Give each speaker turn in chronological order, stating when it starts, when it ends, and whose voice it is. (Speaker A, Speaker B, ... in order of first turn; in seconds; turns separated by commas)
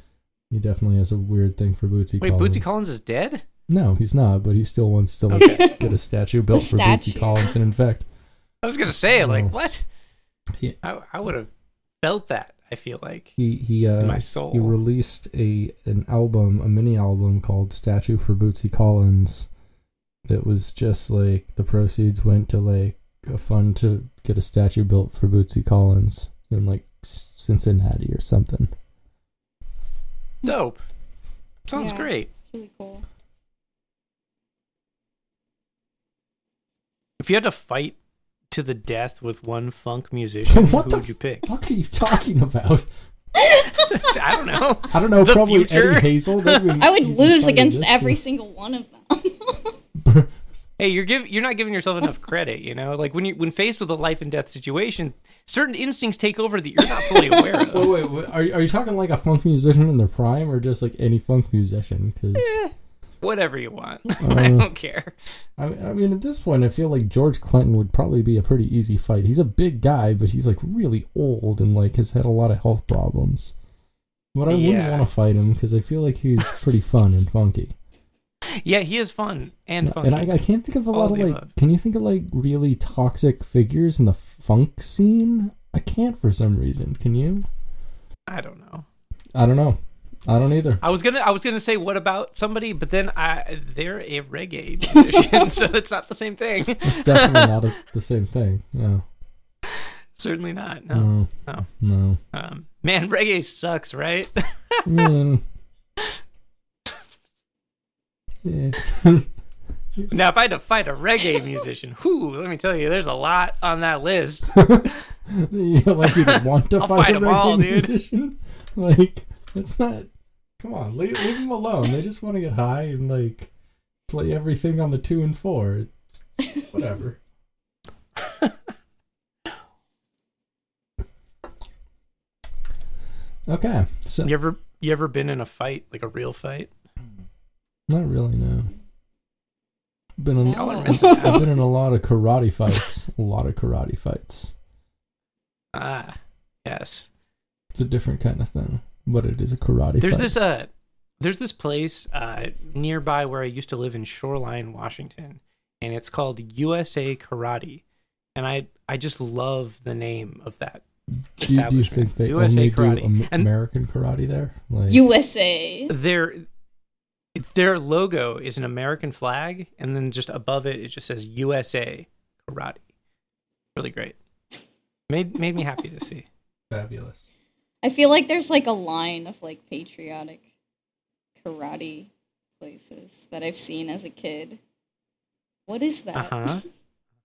Speaker A: 0.5-2.7, Speaker B: 2.2-3.4, Speaker A: 3.7-8.1, Speaker B: 5.3-5.7, Speaker C: 5.3-5.9, Speaker C: 6.5-7.5, Speaker B: 8.6-9.8, Speaker A: 9.1-9.5, Speaker B: 10.8-11.5, Speaker B: 12.0-13.3, Speaker A: 13.4-19.5, Speaker B: 14.0-14.8, Speaker A: 20.3-28.7, Speaker B: 30.4-30.8, Speaker B: 31.7-32.3, Speaker C: 31.7-33.0, Speaker B: 37.2-38.0, Speaker B: 38.5-41.5, Speaker A: 40.5-42.9, Speaker C: 43.4-43.9, Speaker B: 43.9-46.7, Speaker A: 44.9-48.2, Speaker C: 46.8-49.7, Speaker A: 50.0-50.3, Speaker B: 50.8-57.9, Speaker A: 57.7-62.6, Speaker B: 62.4-65.2, Speaker A: 64.2-64.7, Speaker A: 65.6-73.5, Speaker A: 74.3-77.7, Speaker B: 74.5-75.1, Speaker B: 78.5-80.3, Speaker A: 79.8-87.5, Speaker B: 80.9-81.5, Speaker B: 88.3-88.9, Speaker A: 89.3-90.8, Speaker B: 90.8-97.6, Speaker A: 96.8-99.0, Speaker B: 99.7-101.7, Speaker A: 100.9-102.2, Speaker B: 102.3-104.9, Speaker A: 104.8-105.4, Speaker A: 108.4-109.3, Speaker B: 110.1-115.0, Speaker A: 114.5-120.1, Speaker B: 116.0-117.9, Speaker A: 120.6-123.5, Speaker A: 124.1-127.2, Speaker B: 128.2-128.5, Speaker A: 133.5-134.3, Speaker B: 134.2-136.7, Speaker A: 137.9-138.7, Speaker A: 140.2-144.5, Speaker C: 140.4-141.5, Speaker B: 140.5-141.5, Speaker B: 145.7-147.1, Speaker A: 147.7-150.3, Speaker B: 150.0-157.8, Speaker B: 158.3-160.8, Speaker A: 161.2-165.0, Speaker B: 161.4-163.5, Speaker C: 164.9-165.9, Speaker B: 165.9-166.5, Speaker B: 167.3-172.8, Speaker B: 173.8-174.2, Speaker B: 175.1-176.3, Speaker A: 176.7-177.2, Speaker C: 177.8-180.4, Speaker C: 181.4-184.6, Speaker C: 185.7-186.6, Speaker B: 186.2-186.6